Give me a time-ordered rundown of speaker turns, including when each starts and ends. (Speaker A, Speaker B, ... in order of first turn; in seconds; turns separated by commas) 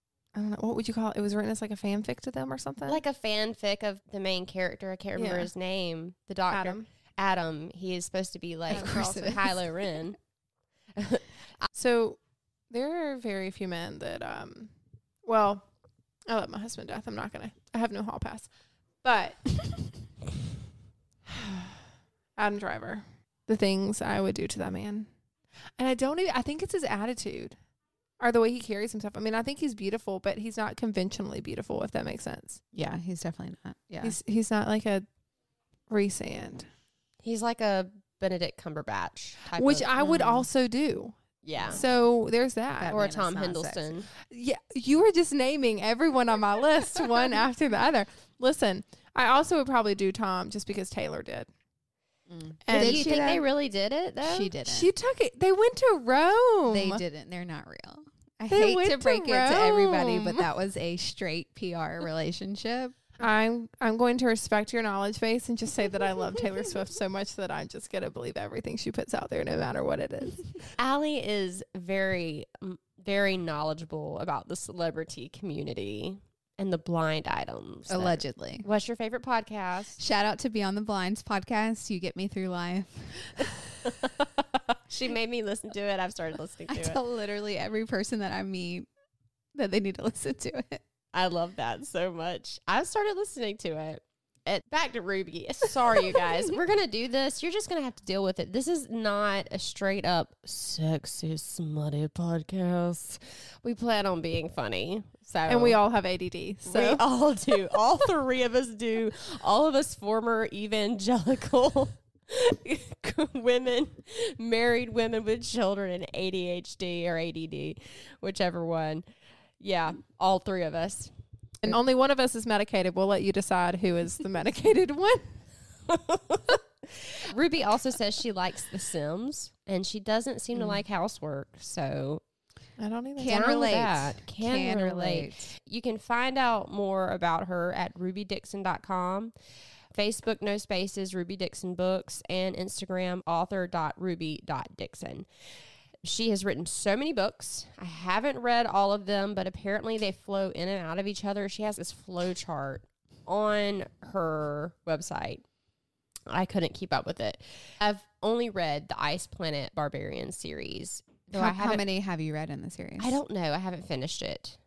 Speaker A: 0.3-3.0, Speaker B: 2.9-10.2, Speaker A: 5.2-5.5, Speaker A: 6.5-6.9, Speaker C: 8.7-9.4, Speaker A: 8.7-9.5, Speaker B: 11.0-11.3, Speaker A: 11.7-14.7, Speaker A: 15.2-15.7, Speaker A: 16.3-18.5, Speaker A: 19.0-20.0, Speaker A: 21.4-21.6, Speaker A: 22.4-25.1, Speaker A: 25.8-27.6, Speaker A: 28.2-32.6, Speaker C: 32.7-34.2, Speaker A: 34.0-35.1, Speaker A: 35.9-36.7, Speaker B: 37.2-39.9, Speaker A: 39.5-43.0, Speaker C: 40.0-40.5, Speaker B: 41.4-41.8, Speaker C: 42.8-44.0, Speaker B: 42.9-44.1, Speaker A: 44.2-51.5, Speaker C: 52.3-53.4, Speaker A: 52.7-53.3, Speaker B: 52.7-54.5, Speaker C: 54.2-54.9, Speaker A: 54.6-57.0, Speaker C: 56.7-63.0, Speaker A: 58.5-60.5, Speaker A: 63.2-70.7, Speaker B: 70.8-80.0, Speaker C: 77.9-78.7, Speaker C: 80.0-83.5, Speaker B: 83.9-84.2, Speaker B: 84.9-87.0, Speaker C: 86.7-88.9, Speaker C: 89.5-90.8, Speaker B: 91.1-105.8, Speaker A: 105.5-107.1, Speaker B: 106.7-119.1, Speaker B: 119.6-121.1, Speaker A: 121.6-125.4, Speaker B: 125.9-132.2, Speaker A: 132.8-133.6, Speaker C: 133.2-135.5, Speaker B: 133.2-139.3, Speaker B: 139.9-145.3, Speaker B: 146.0-155.4, Speaker B: 156.3-161.8, Speaker C: 161.3-163.2, Speaker B: 163.0-164.6